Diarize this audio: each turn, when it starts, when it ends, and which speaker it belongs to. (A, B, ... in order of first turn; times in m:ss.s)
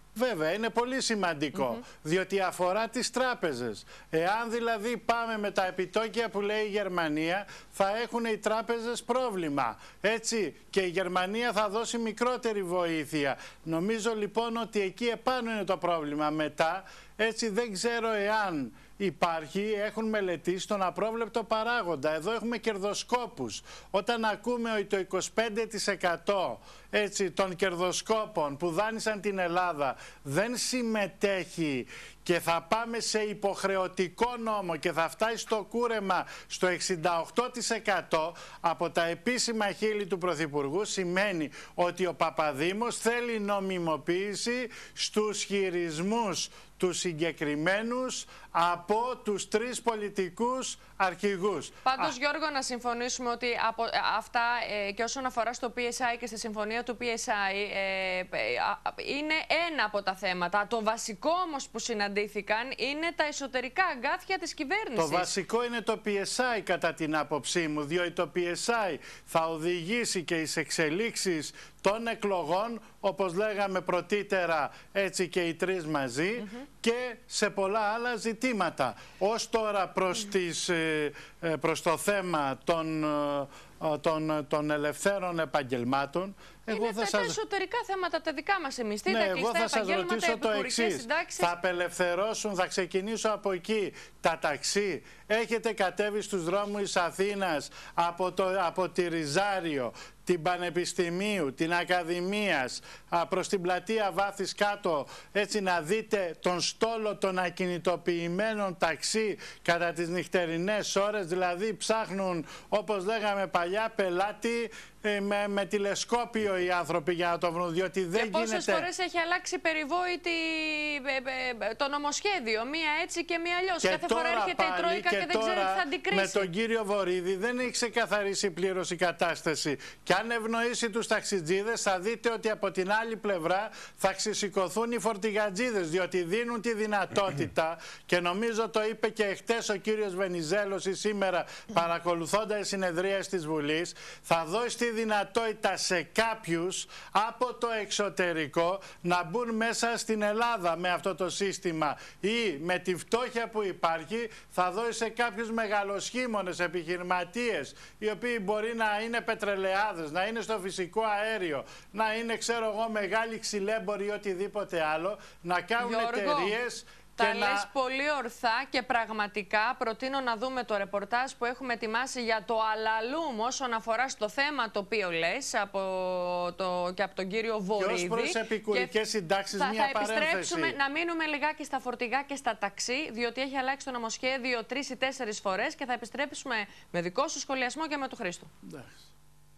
0:00.2-0:52.1 A
0:01.5-0:01.8 B
0:51.8-1:05.3 B
1:05.0-1:27.4 A
1:26.7-1:31.5 B
1:29.0-1:58.9 A
1:58.1-2:06.5 B
2:03.8-2:47.7 A
2:45.8-2:46.6 B
2:47.2-2:58.9 B
2:57.8-3:00.8 A
2:59.5-3:08.5 B